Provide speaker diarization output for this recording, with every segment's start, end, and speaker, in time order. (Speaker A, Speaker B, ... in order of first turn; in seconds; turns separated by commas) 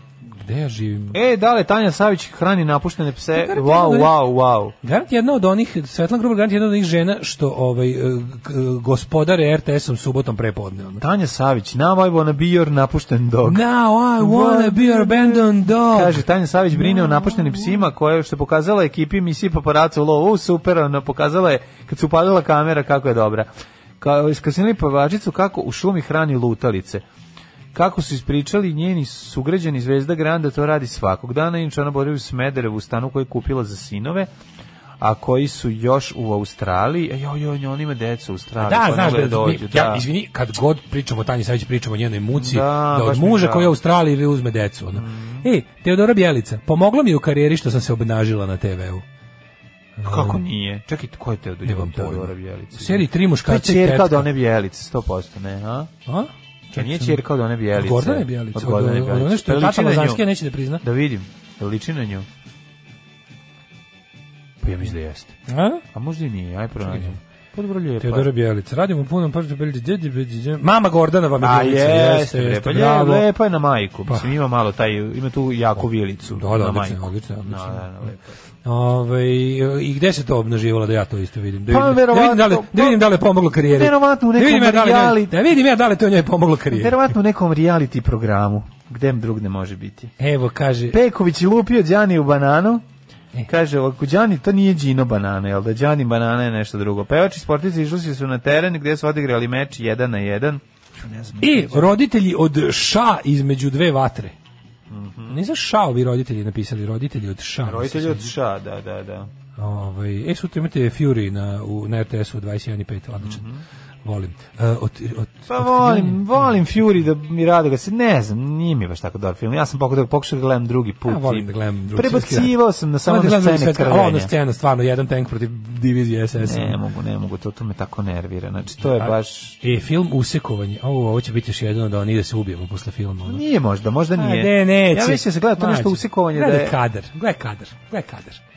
Speaker A: 0.3-1.2, Speaker B: 1.1-4.7, Speaker A: 3.3-4.1, Speaker A: 4.8-11.0, Speaker B: 11.0-13.6, Speaker A: 13.4-16.2, Speaker B: 14.2-23.5, Speaker A: 17.1-17.3, Speaker B: 24.0-27.0, Speaker B: 27.7-34.3, Speaker B: 35.0-40.0, Speaker A: 38.6-49.0, Speaker B: 42.3-43.7, Speaker B: 45.0-45.5, Speaker A: 50.0-50.4, Speaker B: 50.0-55.9, Speaker A: 51.6-54.3, Speaker A: 56.1-60.8, Speaker B: 56.8-60.2, Speaker B: 60.8-62.3, Speaker B: 64.6-65.3, Speaker A: 65.5-65.8, Speaker B: 65.9-68.3, Speaker A: 66.9-67.2, Speaker A: 68.0-73.2, Speaker B: 71.4-78.3, Speaker A: 76.3-77.9, Speaker A: 78.6-87.0, Speaker B: 81.7-83.0, Speaker B: 83.6-85.4, Speaker B: 86.7-90.1, Speaker A: 90.2-91.0, Speaker B: 90.9-92.8, Speaker B: 93.5-101.9, Speaker A: 101.4-104.3, Speaker B: 104.9-105.4, Speaker A: 105.3-108.3, Speaker B: 107.7-109.3, Speaker A: 109.6-113.4, Speaker B: 113.2-113.6, Speaker A: 114.0-116.5, Speaker B: 115.5-124.3, Speaker A: 121.1-126.8, Speaker B: 126.4-129.6, Speaker A: 128.8-133.4, Speaker B: 133.3-136.8, Speaker A: 134.2-138.4